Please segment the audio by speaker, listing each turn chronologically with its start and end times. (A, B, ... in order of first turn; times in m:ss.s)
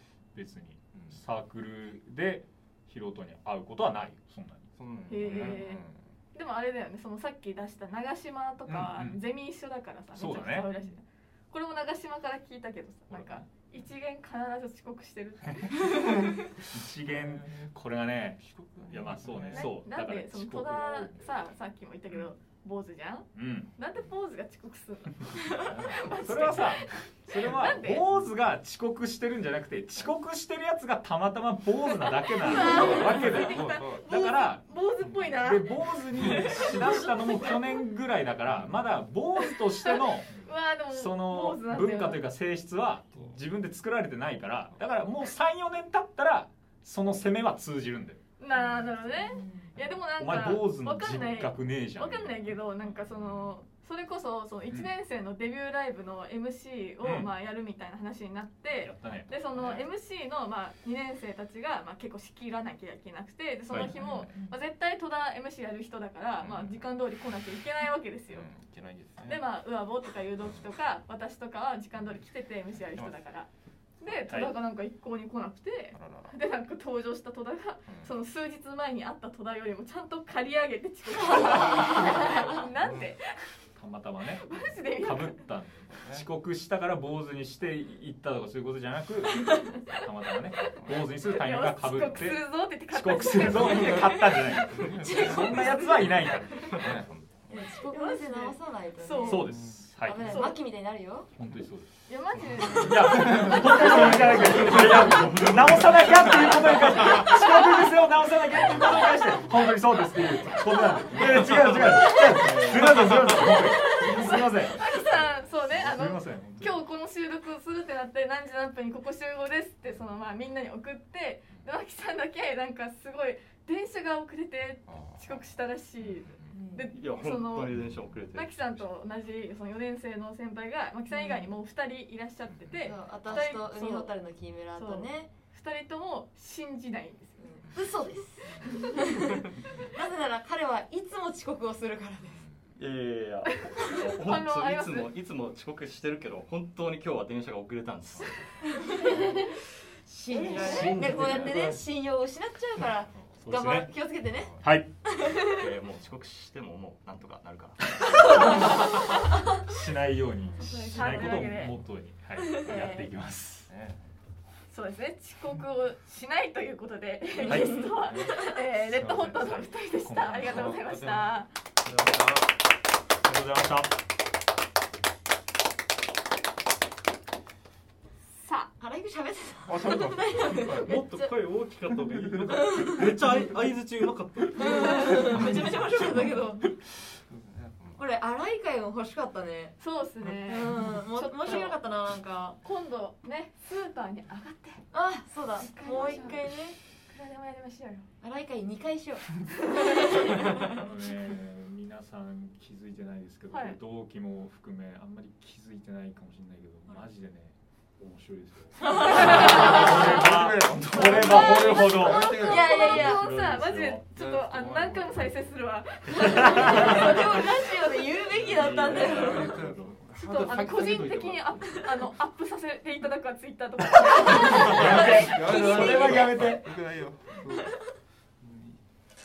0:00.3-0:04.7 A
0:00.9-0:01.2 B
0:04.7-0:06.0 B
0:05.1-0:16.3 C
0:05.2-0:05.5 A
0:08.6-0:09.2 A
0:10.1-0:10.7 A
0:13.1-0:13.5 A
0:15.6-0:21.1 A
0:17.0-0:17.7 B
0:18.4-0:19.7 B
0:19.5-0:28.1 C
0:23.3-0:23.7 A
0:25.5-0:34.6 A
0:32.0-0:37.8 C
0:32.6-0:34.1 B
0:35.0-0:35.4 B
0:35.3-0:40.3 A
0:38.4-0:39.1 B
0:39.4-0:42.2 C
0:40.9-0:49.0 A
0:48.4-1:08.5 C
0:49.2-0:49.7 D
0:49.8-0:53.6 A
0:57.0-0:57.3 A
0:58.8-0:59.8 A
1:03.7-1:04.0 A
1:03.7-1:04.4 B
1:06.4-1:06.8 B
1:08.3-1:09.4 B
1:09.2-1:13.5 C
1:12.0-1:12.2 B
1:14.0-1:23.4 C
1:14.2-1:14.5 A
1:15.9-1:16.4 B
1:17.9-1:18.1 B
1:22.7-1:23.2 B
1:23.8-1:37.0 A
1:24.4-1:25.4 C
1:25.9-1:26.3 B
1:30.7-1:31.1 B
1:31.3-1:34.9 C
1:33.6-1:33.9 B
1:34.6-1:35.8 B
1:35.0-1:35.6 D
1:35.4-1:36.9 C
1:36.7-1:37.7 B
1:37.5-1:41.3 D
1:37.8-1:39.6 C
1:39.2-1:40.5 A
1:39.5-1:39.8 B
1:40.2-1:40.6 C
1:41.4-1:41.9 A
1:42.1-1:45.0 C
1:42.6-1:55.0 A
1:44.5-1:45.2 B
1:44.6-1:46.6 E
1:51.9-1:53.3 E
1:53.2-2:07.7 C
1:54.9-1:55.5 B
1:55.7-1:56.8 A
2:04.9-2:06.6 B
2:06.5-2:06.9 D
2:06.9-2:08.8 E
2:08.3-2:14.2 C
2:11.1-2:11.5 D
2:12.5-2:12.9 B
2:12.8-2:15.3 D
2:14.7-2:17.6 C
2:17.6-2:19.2 B
2:17.7-2:19.4 D
2:19.9-2:22.4 D
2:22.8-2:29.4 E
2:23.6-2:25.1 C
2:28.1-2:29.2 B
2:28.7-2:29.5 D
2:30.0-2:35.6 D
2:30.3-2:31.8 E
2:33.5-2:33.8 E
2:33.5-2:33.9 A
2:34.4-2:34.8 B
2:34.6-2:34.9 A
2:35.4-2:39.1 E
2:38.2-2:38.7 D
2:38.3-2:38.7 A
2:39.6-2:43.7 A
2:40.6-2:41.7 C
2:42.5-2:43.1 C
2:43.7-2:44.0 B
2:44.7-2:51.5 C
2:47.4-2:47.9 A
2:48.0-2:49.6 B
2:49.3-2:50.8 A
2:50.4-2:51.4 B
2:51.8-2:52.5 E
2:53.2-2:53.9 A
2:58.4-2:58.7 C
2:58.8-3:01.3 D
2:59.7-3:01.1 B
3:00.8-3:05.8 E
3:02.2-3:02.8 B
3:02.5-3:03.0 D
3:04.5-3:06.7 D
3:07.1-3:08.0 B
3:08.0-3:09.8 D
3:09.8-3:11.8 C
3:10.4-3:12.6 D
3:12.6-3:14.8 C
3:14.9-3:16.8 D
3:15.6-3:18.1 C
3:18.2-3:20.8 D
3:19.8-3:20.4 C
3:20.6-3:32.3 A
3:23.5-3:23.8 C
3:28.9-3:29.7 D
3:29.3-3:33.1 B
3:30.8-3:37.7 C
3:31.2-3:31.7 D
3:32.3-3:33.2 D
3:32.9-3:34.0 A
3:34.1-3:35.3 B
3:36.2-3:37.3 A
3:36.3-3:39.5 D
3:38.4-3:39.8 A
3:38.4-3:40.7 B
3:38.6-3:39.2 E
3:40.2-3:41.8 E
3:40.2-3:46.6 C
3:44.4-3:46.7 A
3:44.7-3:47.8 B
3:48.4-3:48.8 B